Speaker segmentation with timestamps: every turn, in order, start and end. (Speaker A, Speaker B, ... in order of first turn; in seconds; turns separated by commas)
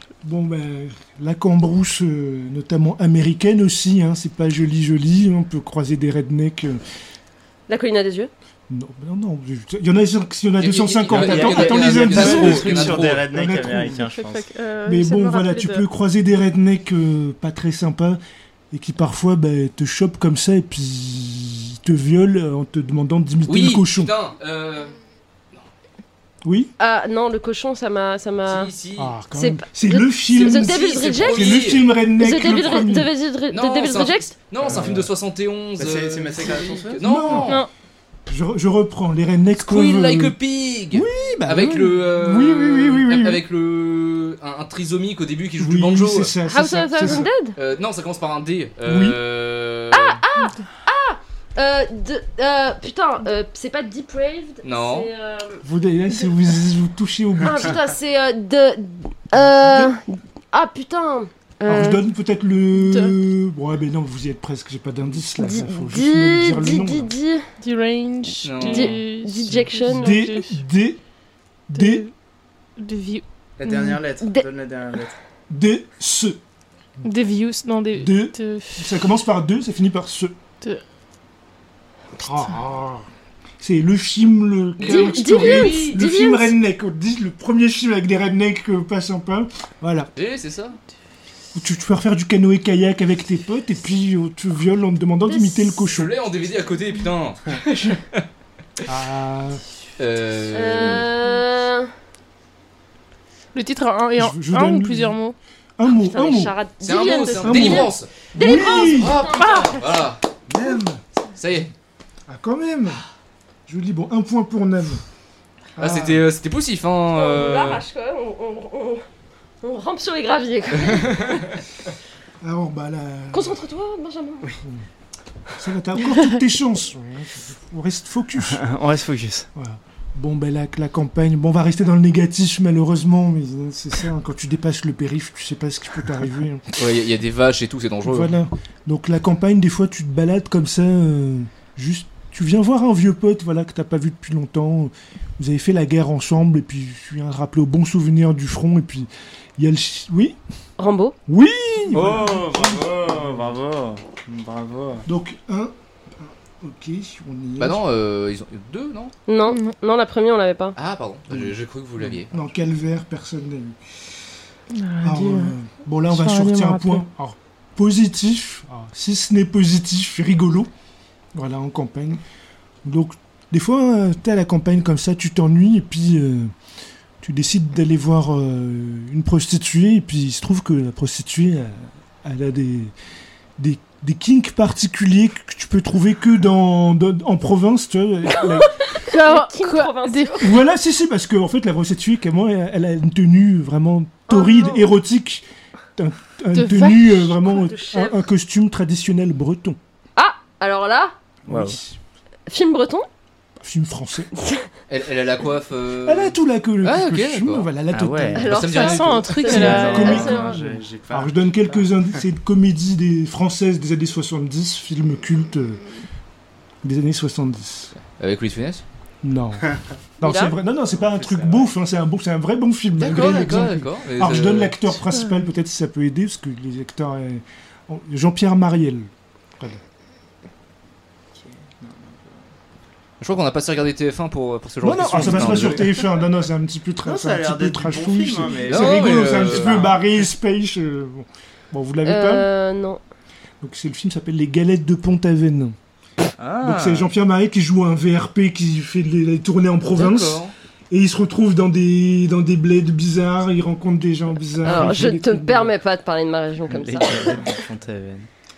Speaker A: 0.2-6.8, Speaker B: 7.7-8.3, Speaker A: 8.7-14.1, Speaker C: 10.6-13.3, Speaker D: 11.1-14.5, Speaker E: 14.1-15.8, Speaker A: 14.9-18.2, Speaker A: 18.7-24.1, Speaker C: 23.5-25.0, Speaker A: 26.4-26.7, Speaker B: 26.8-28.7, Speaker C: 28.4-29.1, Speaker A: 29.0-33.1, Speaker B: 29.3-34.4, Speaker C: 30.4-31.9, Speaker C: 33.5-37.6, Speaker D: 34.6-35.1, Speaker D: 35.8-37.0, Speaker A: 37.0-37.6, Speaker A: 38.3-40.4, Speaker C: 39.6-46.3, Speaker A: 40.9-43.4, Speaker A: 45.6-47.3, Speaker B: 46.5-47.6, Speaker C: 47.0-50.2, Speaker A: 48.9-49.2, Speaker B: 49.9-55.6, Speaker C: 54.6-55.1, Speaker A: 55.6-57.8, Speaker B: 57.4-62.0, Speaker A: 59.4-60.0, Speaker A: 61.7-67.1, Speaker E: 62.8-63.1, Speaker B: 65.4-67.5, Speaker E: 67.6-70.6, Speaker C: 68.4-69.0, Speaker B: 68.7-70.2, Speaker A: 69.9-71.0, Speaker A: 71.7-72.1, Speaker E: 71.7-72.1, Speaker E: 72.8-74.0, Speaker D: 73.6-75.1, Speaker B: 74.2-74.5, Speaker A: 75.5-76.4, Speaker E: 77.0-79.0, Speaker A: 78.0-80.3, Speaker A: 82.2-83.1, Speaker A: 83.6-90.1, Speaker C: 84.8-86.0, Speaker B: 84.8-86.5, Speaker C: 90.2-90.8, Speaker A: 91.5-96.1, Speaker B: 95.3-95.8, Speaker C: 95.9-98.2, Speaker A: 98.9-99.6, Speaker C: 100.0-101.1, Speaker B: 100.5-101.9, Speaker E: 103.5-105.3, Speaker A: 104.2-105.2, Speaker A: 105.8-106.5, Speaker B: 105.8-109.5, Speaker C: 106.8-110.2, Speaker A: 107.4-109.2, Speaker E: 109.4-109.8, Speaker A: 110.5-111.0, Speaker C: 111.4-111.7, Speaker A: 112.3-113.0, Speaker A: 113.7-115.0, Speaker A: 115.8-116.3, Speaker C: 115.8-117.8, Speaker B: 117.1-119.0, Speaker B: 119.6-121.5, Speaker A: 122.4-123.6, Speaker B: 123.3-124.6, Speaker A: 125.6-128.6, Speaker D: 128.4-129.5, Speaker A: 129.6-136.7, Speaker C: 136.7-138.4, Speaker A: 138.1-150.4, Speaker B: 150.8-151.2, Speaker A: 151.3-153.5, Speaker D: 151.9-155.1, Speaker A: 155.1-157.8, Speaker C: 157.6-159.1, Speaker B: 159.3-160.8, Speaker C: 160.8-162.3, Speaker D: 162.0-162.2, Speaker A: 162.3-163.8, Speaker E: 164.8-165.5, Speaker A: 165.0-170.7, Speaker E: 166.1-167.1, Speaker A: 171.3-172.2, Speaker A: 172.8-176.5, Speaker A: 177.2-182.9, Speaker A: 183.6-188.7, Speaker B: 188.4-190.6, Speaker E: 189.1-190.3, Speaker A: 190.4-195.4, Speaker B: 194.3-194.9, Speaker A: 196.0-199.8, Speaker E: 196.6-197.4, Speaker B: 197.6-198.2, Speaker B: 200.2-201.2, Speaker A: 201.5-202.0, Speaker D: 201.5-201.8, Speaker B: 202.5-203.1, Speaker A: 203.6-204.3, Speaker B: 204.4-204.7, Speaker C: 204.9-207.7, Speaker A: 206.0-208.8, Speaker D: 207.9-208.6, Speaker B: 208.3-210.6, Speaker C: 208.5-209.6, Speaker E: 208.8-210.0, Speaker A: 209.4-215.9, Speaker D: 209.5-212.2, Speaker A: 216.8-217.9, Speaker C: 218.0-218.8, Speaker A: 219.2-229.8, Speaker B: 220.2-220.6, Speaker D: 220.9-221.8, Speaker C: 223.0-225.0, Speaker E: 225.1-225.4, Speaker D: 231.4-232.4, Speaker C: 233.2-235.9, Speaker A: 234.8-242.5, Speaker D: 235.1-235.8, Speaker D: 237.0-240.0, Speaker C: 238.7-239.9, Speaker B: 242.0-243.0, Speaker A: 243.6-245.8, Speaker C: 246.4-247.1, Speaker A: 246.6-255.7, Speaker C: 250.0-250.5, Speaker B: 254.6-257.5, Speaker D: 256.7-258.3